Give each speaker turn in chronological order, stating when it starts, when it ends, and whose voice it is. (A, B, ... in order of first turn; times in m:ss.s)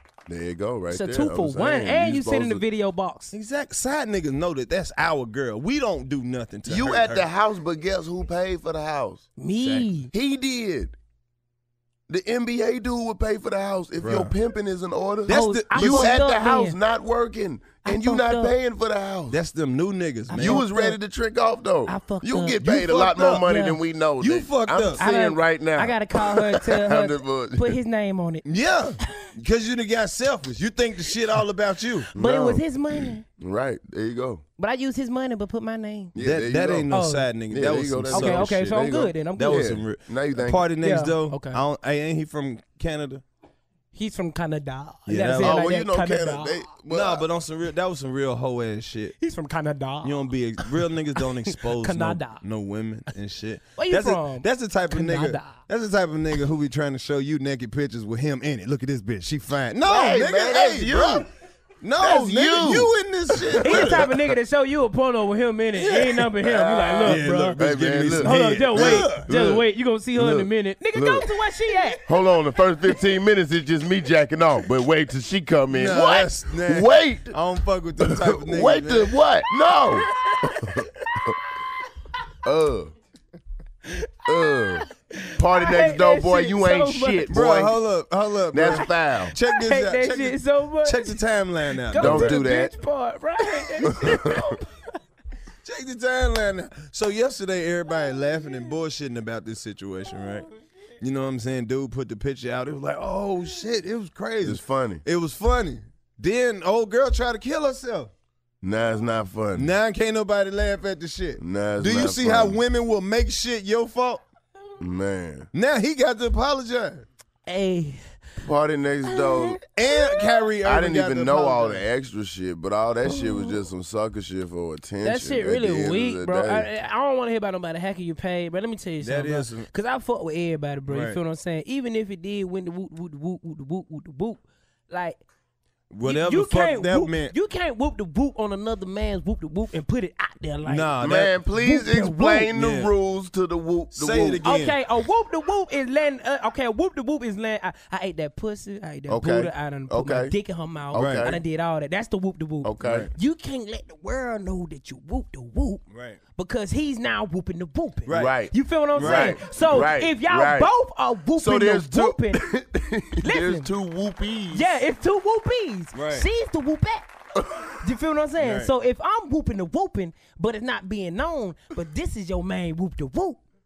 0:00.3-0:02.6 A
0:00.9-0:03.3 B
0:03.3-0:07.3 C
0:06.6-0:09.3 A
0:09.4-0:10.1 B
0:09.6-0:09.9 C
0:10.1-0:10.9 A
0:12.1-0:19.4 A
0:14.0-0:14.3 C
0:15.3-0:16.2 C
0:15.3-0:16.8 B
0:17.8-0:18.5 B
0:19.3-0:20.7 C
0:20.3-0:21.0 B
0:20.3-0:27.7 A
0:21.9-0:23.8 B
0:22.6-0:23.5 C
0:24.2-0:25.0 C
0:25.0-0:28.4 B
0:28.4-0:32.1 C
0:32.1-0:32.6 A
0:32.1-0:33.2 B
0:33.4-0:34.4 A
0:34.6-0:36.1 B
0:36.1-0:36.9 A
0:36.2-0:38.7 C
0:36.9-0:37.3 B
0:37.5-0:40.7 A
0:38.1-0:39.6 B
0:39.3-0:43.2 C
0:40.8-0:41.6 B
0:43.9-0:46.7 B
0:45.1-0:45.7 C
0:45.4-0:47.2 A
0:46.9-0:49.1 C
0:49.2-0:50.7 B
0:50.0-1:01.2 C
0:51.2-0:52.4 B
0:53.8-0:55.6 B
0:59.8-1:01.3 A
1:01.8-1:04.2 C
1:02.0-1:04.0 A
1:03.6-1:07.6 B
1:05.8-1:06.1 C
1:06.4-1:09.6 A
1:07.0-1:09.3 C
1:08.2-1:12.0 B
1:10.1-1:11.2 A
1:12.0-1:17.4 A
1:15.7-1:19.1 C
1:18.0-1:21.3 A
1:22.4-1:22.9 A
1:24.2-1:24.8 A
1:24.2-1:27.3 B
1:25.4-1:27.8 A
1:27.3-1:32.5 C
1:28.5-1:29.4 A
1:29.4-1:31.2 B
1:31.8-1:34.6 B
1:32.0-1:32.7 A
1:33.8-1:34.6 A
1:35.6-1:40.5 C
1:41.0-1:48.1 C
1:44.4-1:45.0 A
1:48.6-1:49.7 A
1:49.6-1:54.2 C
1:51.4-1:52.6 A
1:54.8-1:55.5 A
1:55.5-1:57.0 C
1:57.5-1:58.0 B
1:58.4-1:59.6 A
1:59.0-2:00.2 B
1:59.7-2:01.8 C
2:00.6-2:06.7 A
2:05.0-2:15.2 B
2:09.0-2:09.7 C
2:10.9-2:11.2 C
2:15.9-2:17.3 C
2:16.0-2:21.0 B
2:20.6-2:21.3 C
2:21.0-2:24.4 A
2:21.5-2:22.5 B
2:22.5-2:22.9 C
2:23.9-2:24.8 C
2:24.4-2:35.8 B
2:29.1-2:30.3 A
2:30.9-2:31.4 A
2:30.9-2:31.3 C
2:32.6-2:33.1 A
2:32.8-2:33.1 C
2:35.9-2:36.2 C
2:36.3-2:42.4 B
2:38.1-2:38.4 C
2:38.1-2:40.7 A
2:38.9-2:39.4 C
2:41.4-2:44.7 A
2:43.2-2:43.7 B
2:44.5-2:47.0 B
2:45.9-2:46.2 C
2:47.8-2:53.4 B
2:48.4-2:48.7 C